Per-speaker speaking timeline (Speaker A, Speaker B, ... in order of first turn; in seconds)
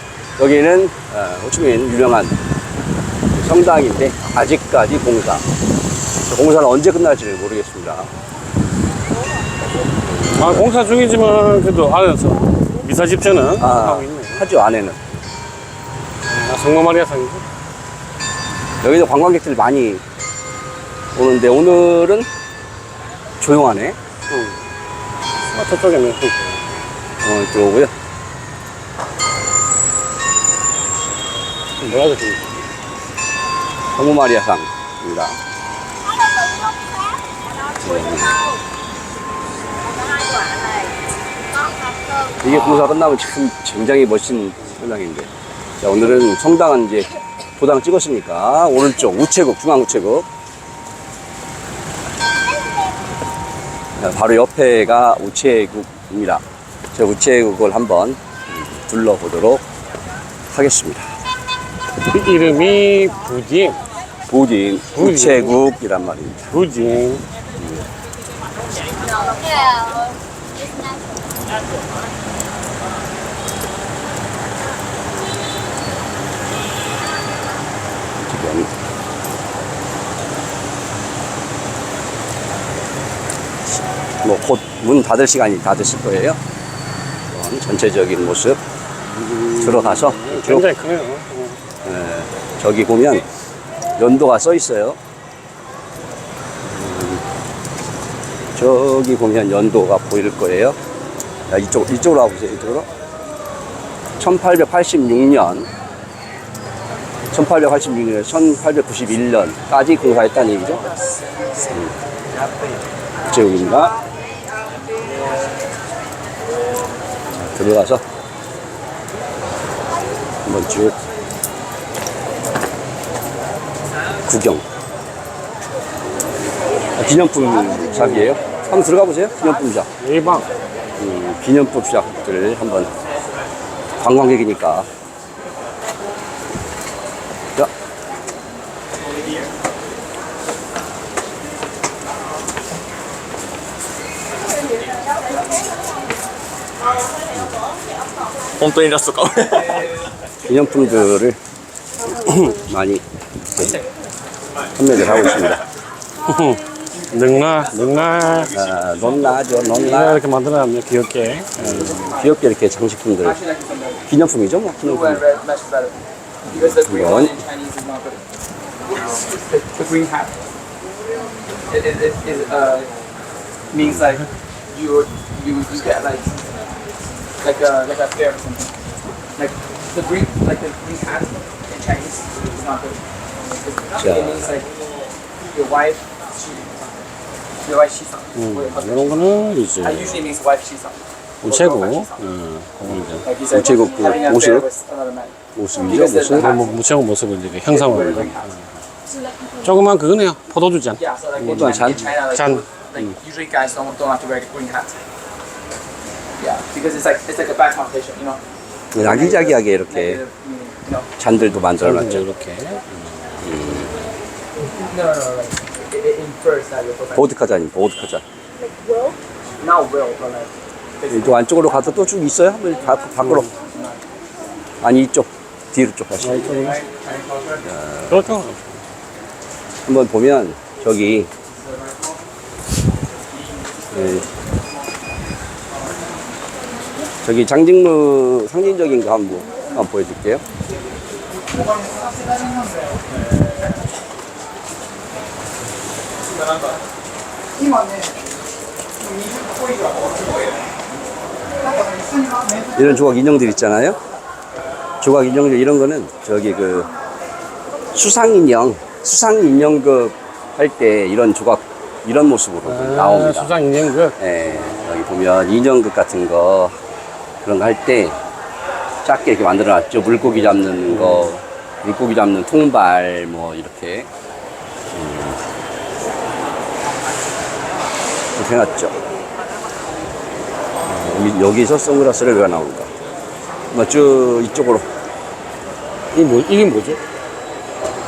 Speaker A: 0.4-2.4, 3.3-5.4, 6.3-8.1, 10.1-10.7, 13.6-15.2, 18.8-20.0, 21.1-22.3, 23.4-24.0, 27.2-27.9, 33.9-35.4, 37.7-38.5, 42.3-50.3, 54.0-56.4, 56.9-59.6, 60.5-61.1, 64.3-66.5, 67.5-67.9, 78.2-78.7, 84.2-86.4, 87.3-88.6, 89.6-90.7, 91.8-93.2, 94.0-95.0, 96.6-97.2, 98.5-100.8, 101.5-102.9, 104.2-105.7, 107.3-110.8, 111.7-112.0, 113.2-114.0, 117.3-118.0, 120.4-121.0, 124.2-124.6, 126.9-129.9, 131.0-132.9, 134.0-134.9, 147.3-147.6, 150.4-151.4, 152.5-153.8, 154.7-155.6, 158.5-160.2, 161.6-163.4, 164.1-165.2, 166.5-167.4, 173.8-174.1, 184.0-184.6, 193.5-194.7, 195.5-196.6, 201.5-202.1, 208.9-210.2, 211.2-212.3, 213.4-214.2, 217.1-218.2, 221.1-223.6, 224.8-226.5, 227.6-228.2, 229.8-231.3, 233.9-234.3, 237.2-240.4, 252.7-254.0, 255.0-256.9, 257.9-263.6, 264.2-266.8, 267.4-268.2, 269.0-274.1, 274.9-275.4, 278.4-278.9, 280.8-282.9, 283.7-284.9
Speaker B: 10.3-14.5, 16.2-17.4, 24.3-24.6, 25.5-26.8, 31.8-32.6, 42.5-42.8, 62.0-63.8, 64.9-65.6, 66.5-67.2, 89.1-91.6, 130.0-130.5, 152.2-152.5, 156.2-158.6, 159.7-162.1, 188.3-190.3, 191.4-193.3, 196.4-198.6, 199.4-202.7, 211.8-213.4, 226.2-226.9, 228.1-228.8, 262.6-264.2, 270.9-271.3, 286.1-287.0
Speaker C: 148.6-149.7, 161.8-162.3, 163.2-164.0, 164.8-168.2, 168.9-170.3, 171.7-172.9, 173.7-176.5, 177.4-178.7, 179.4-184.7, 185.4-186.9, 187.6-189.1, 189.8-192.1, 193.2-196.7, 197.7-198.5, 201.0-204.9, 206.4-208.4, 208.9-211.1, 214.6-217.2, 219.6-221.3, 223.6-224.0, 226.4-227.6, 231.6-232.0